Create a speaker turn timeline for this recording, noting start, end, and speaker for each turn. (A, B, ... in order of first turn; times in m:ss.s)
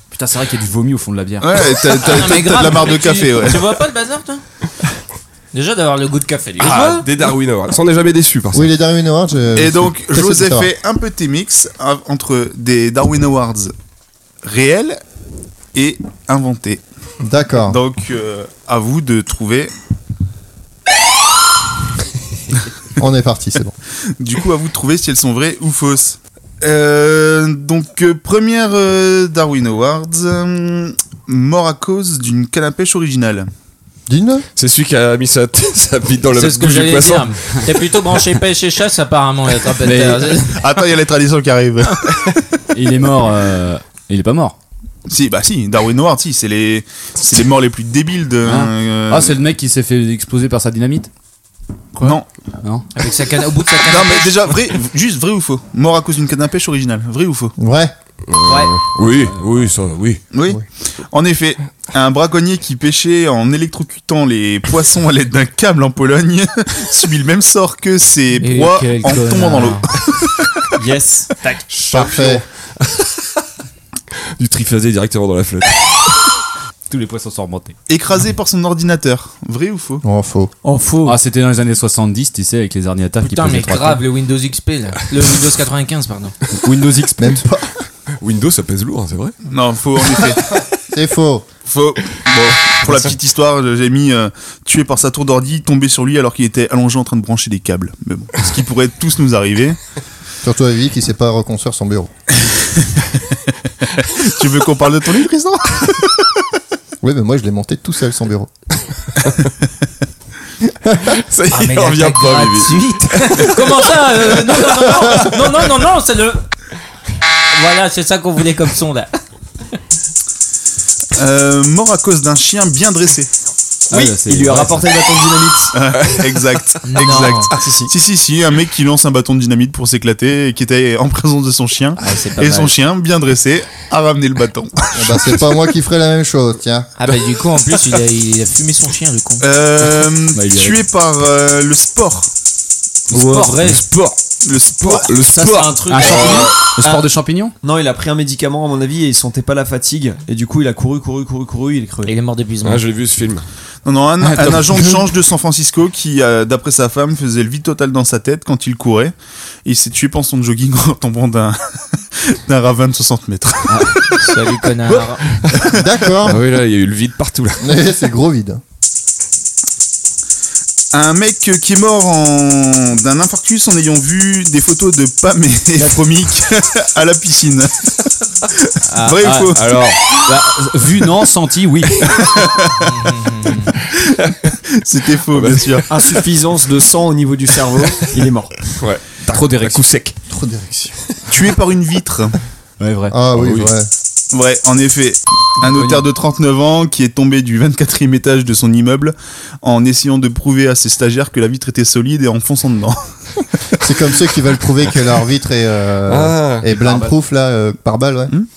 0:00.1-0:01.5 A
0:01.4-0:03.7 B
0:02.0-0:04.4 C
0:05.5-0:07.1 C
0:06.6-0:08.7 D
0:08.5-0:10.7 E
0:09.6-0:13.7 B
0:14.4-0:15.0 B
0:15.7-0:16.8 B
0:17.2-0:17.8 E
0:17.6-0:19.7 B
0:23.0-0:23.8 E
0:24.2-0:33.5 B
0:34.1-0:34.4 E
0:34.6-0:37.6 D
0:36.3-0:40.7 C
0:39.8-0:40.4 A
0:40.4-0:42.1 B
0:42.7-0:44.6 A
0:45.1-0:49.4 B
0:48.4-0:51.1 A
0:52.0-0:52.8 A
0:52.0-0:52.3 B
0:52.9-0:54.6 C
0:53.9-0:57.6 B
0:57.6-0:57.9 E
0:58.3-1:00.2 D
1:00.3-1:10.0 B
1:08.4-1:09.9 C
1:10.8-1:11.3 F
1:11.8-1:13.0 D
1:11.9-1:12.4 E
1:14.4-1:15.8 D
1:16.9-1:17.8 A
1:17.9-1:20.0 B
1:20.0-1:20.5 E
1:20.7-1:21.1 F
1:20.8-1:21.1 C
1:21.0-1:24.0 A
1:23.2-1:26.4 C
1:26.5-1:27.4 A
1:27.2-1:27.7 E
1:28.2-1:29.4 D
1:29.5-1:30.6 B
1:30.9-1:31.5 E
1:31.6-1:39.8 B
1:40.4-1:42.1 E
1:42.4-1:46.1 B
1:47.0-1:48.5 E
1:51.0-1:53.9 D
1:51.5-1:56.4 C
1:57.5-1:59.1 C
2:01.1-2:03.3 B
2:03.9-2:05.8 F
2:03.9-2:04.9 A
2:05.7-2:15.3 B
2:06.0-2:06.4 D
2:06.9-2:07.5 C
2:07.6-2:07.9 F
2:12.0-2:12.8 C
2:15.0-2:16.9 E
2:17.0-2:19.4 C
2:19.4-2:22.3 B
2:20.3-2:20.8 A
2:23.1-2:23.8 C
2:23.1-2:24.2 D
2:23.1-2:23.5 A
2:24.4-2:25.2 B
2:24.8-2:26.5 D
2:25.3-2:27.1 F
2:25.9-2:27.6 A
2:27.6-2:32.1 F
2:32.0-2:32.8 C
2:32.6-2:33.5 D
2:33.8-2:39.1 B
2:34.2-2:35.0 A
2:39.6-2:44.3 B
2:43.7-2:44.0 A
2:44.2-2:45.3 C
2:45.7-2:46.4 E
2:46.2-2:47.8 D
2:47.6-2:48.6 E
2:50.9-2:57.9 B
2:58.5-2:59.8 B
2:59.2-3:02.2 A
3:02.1-3:02.9 B
3:02.9-3:03.7 C
3:04.7-3:05.9 B
3:05.3-3:06.0 D
3:05.9-3:08.6 F
3:08.8-3:10.1 D
3:09.2-3:10.1 A
3:10.3-3:11.0 E
3:11.3-3:12.4 B
3:12.8-3:13.2 A
3:13.1-3:13.9 E
3:13.4-3:13.7 D
3:14.3-3:23.1 B
3:23.8-3:28.3 E
3:26.1-3:27.1 D